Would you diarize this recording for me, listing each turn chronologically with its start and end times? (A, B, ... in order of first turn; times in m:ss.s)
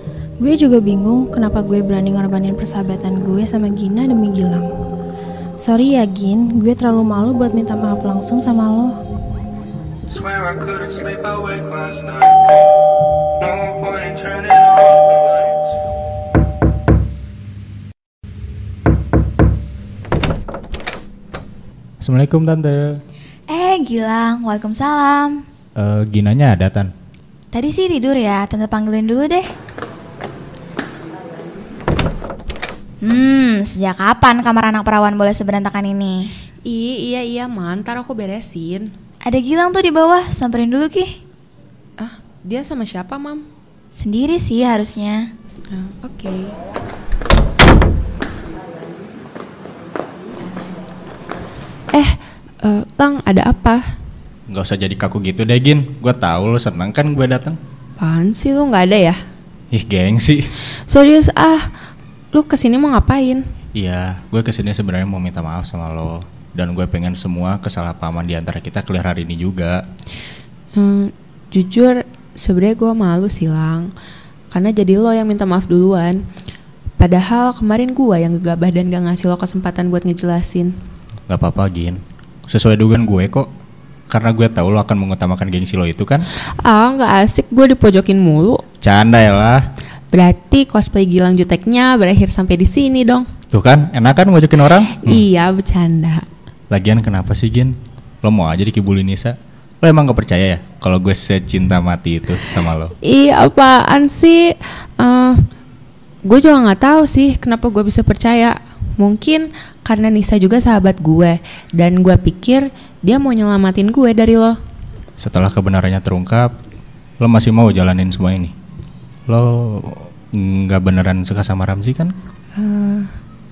0:00.4-0:04.7 A
0:05.6-0:09.0 A
0:10.1-0:12.5 B
0:13.4-0:15.6 B
0:22.0-0:23.0 C
0:23.5-0:25.4 D
0:25.8-0:26.9 C
0:27.5-0:29.5 D
0:33.0-0:36.3 D
0:36.6-0:38.9 E
0:39.2-0:41.2 D
0:42.0-0:43.4 E
0:43.9-0:45.3 D
0:45.7-0:46.6 E
0:51.9-0:53.9 E
0:54.5-0:57.6 C
0:58.0-0:59.2 E
0:59.7-1:00.6 C
1:00.7-1:01.7 E
1:02.3-1:03.5 E
1:03.8-1:09.8 C
1:10.8-1:13.9 E
1:14.5-1:16.2 E
1:17.0-1:20.8 E
1:21.3-1:23.5 C
1:24.1-1:26.3 C
1:26.4-1:28.6 E
1:28.8-1:29.7 C
1:30.1-1:33.3 E
1:33.5-1:35.2 C
1:34.9-1:36.3 E
1:36.7-1:42.9 C
1:43.0-1:45.4 E
1:46.2-1:54.6 E
1:55.2-1:56.6 C
1:57.2-1:58.5 C
1:59.3-2:02.2 C
2:02.6-2:03.1 E